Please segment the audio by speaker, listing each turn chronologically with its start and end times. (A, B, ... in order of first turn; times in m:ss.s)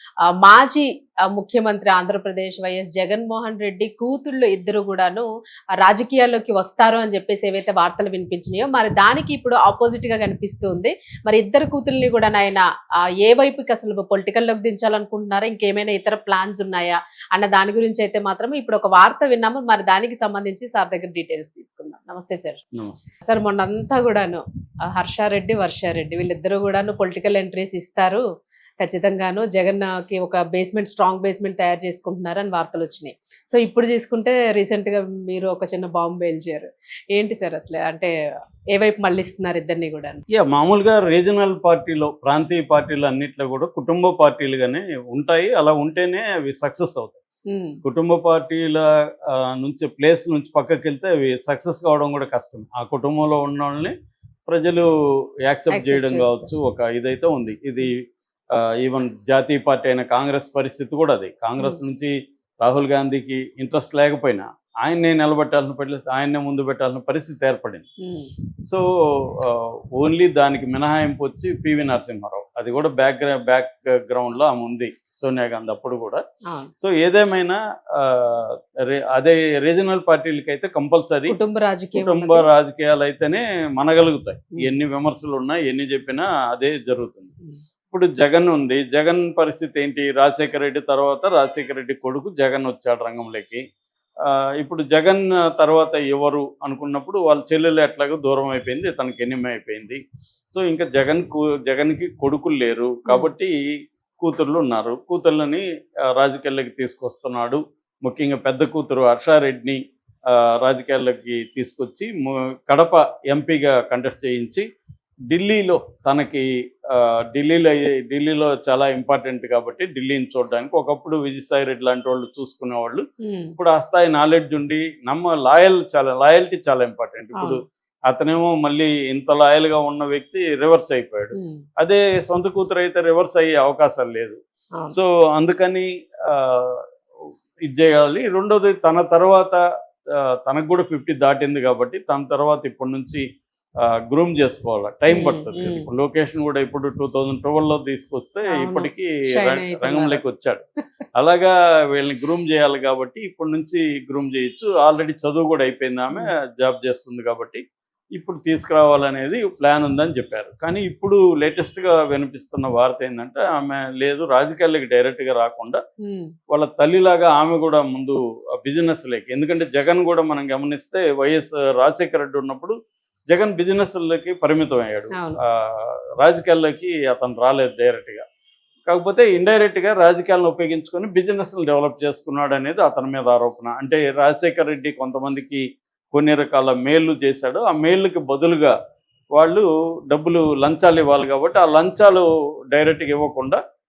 0:00.4-0:12.6 A
0:13.2-0:22.6 A
0:22.8-0:23.1 B
0:23.2-0:28.2 A
0:28.8-0:38.1 A
0:38.7-0:40.2 A
0:40.3-0:47.2 B
0:47.5-0:47.8 A
0:47.8-0:53.9 B
0:54.5-0:54.9 B
0:55.5-0:58.0 B
0:55.7-0:56.5 A
0:58.5-1:07.8 B
1:08.0-1:08.3 A
1:08.6-1:16.2 B
1:16.8-1:21.4 B
1:21.3-1:22.4 A
1:21.9-1:27.3 B
1:27.9-1:33.6 B
1:34.2-1:40.0 B
1:40.5-1:43.5 B
1:43.0-1:43.3 A
1:44.2-1:45.6 B
1:46.2-1:49.8 B
1:50.3-1:54.6 B
1:55.3-2:03.0 B
2:03.2-2:03.6 A
2:03.6-2:14.4 B
2:11.4-2:11.6 A
2:14.9-2:16.8 B
2:17.7-2:19.6 B
2:20.1-2:23.2 B
2:23.8-2:30.6 B
2:25.1-2:25.8 A
2:28.5-2:30.2 A
2:31.2-2:37.6 B
2:38.2-2:45.8 B
2:46.0-2:46.3 A
2:46.5-2:52.7 B
2:53.3-2:58.2 B
2:58.9-3:08.7 B
3:09.4-3:13.6 B